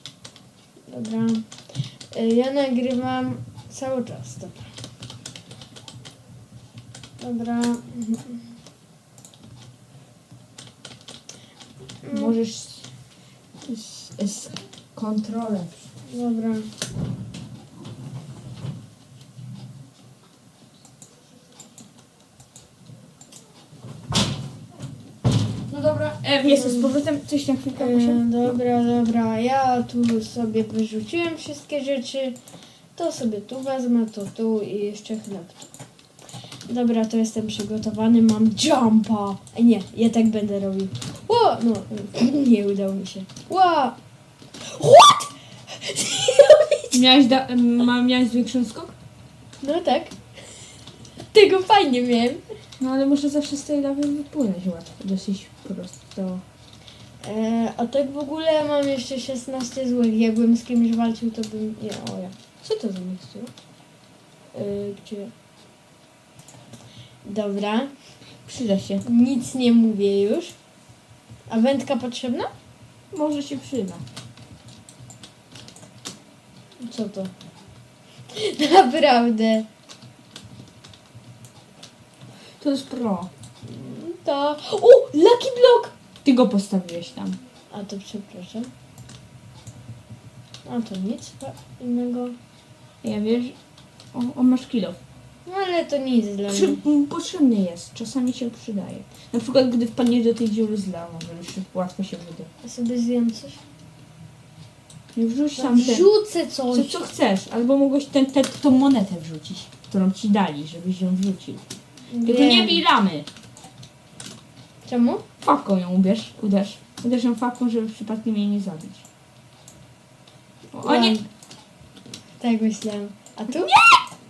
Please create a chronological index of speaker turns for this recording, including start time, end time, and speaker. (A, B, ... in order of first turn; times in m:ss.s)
0:00.9-0:01.5 A
0:02.1-0:04.7 A
0:07.2-0:08.4 A
0:12.0-0:12.3 A
0:12.1-0:12.8 B
0:13.7-0:15.9 B
0:16.1-0:16.7 A
0:25.7-0:28.6 B
0:26.5-0:26.9 A
0:27.8-0:32.4 A
0:33.0-0:35.6 A
0:36.7-0:44.0 A
0:44.6-0:47.0 A
0:46.9-0:48.9 B
0:49.6-0:50.1 A
0:51.3-0:52.4 A
0:52.8-0:56.4 B
0:57.2-1:03.5 A
1:04.5-1:05.3 A
1:07.2-1:07.9 A
1:08.4-1:09.0 B
1:09.0-1:10.5 A
1:11.5-1:12.5 A
1:13.1-1:14.0 B
1:16.8-1:17.3 A
1:18.3-1:19.6 A
1:22.6-1:23.3 B
1:23.6-1:25.9 A
1:26.2-1:27.4 B
1:27.7-1:28.7 A
1:30.6-1:32.4 A
1:33.0-1:33.6 B
1:34.1-1:35.0 B
1:35.4-1:36.8 A
1:36.5-1:42.5 B
1:42.6-1:43.6 A
1:45.1-1:46.1 B
1:45.6-1:47.0 A
1:46.7-1:51.6 B
1:52.1-1:52.8 A
1:52.2-1:53.3 B
1:54.8-1:55.2 A
1:55.4-1:59.0 B
2:00.7-2:01.2 B
2:00.8-2:01.2 A
2:02.4-2:03.7 A
2:03.5-2:04.0 B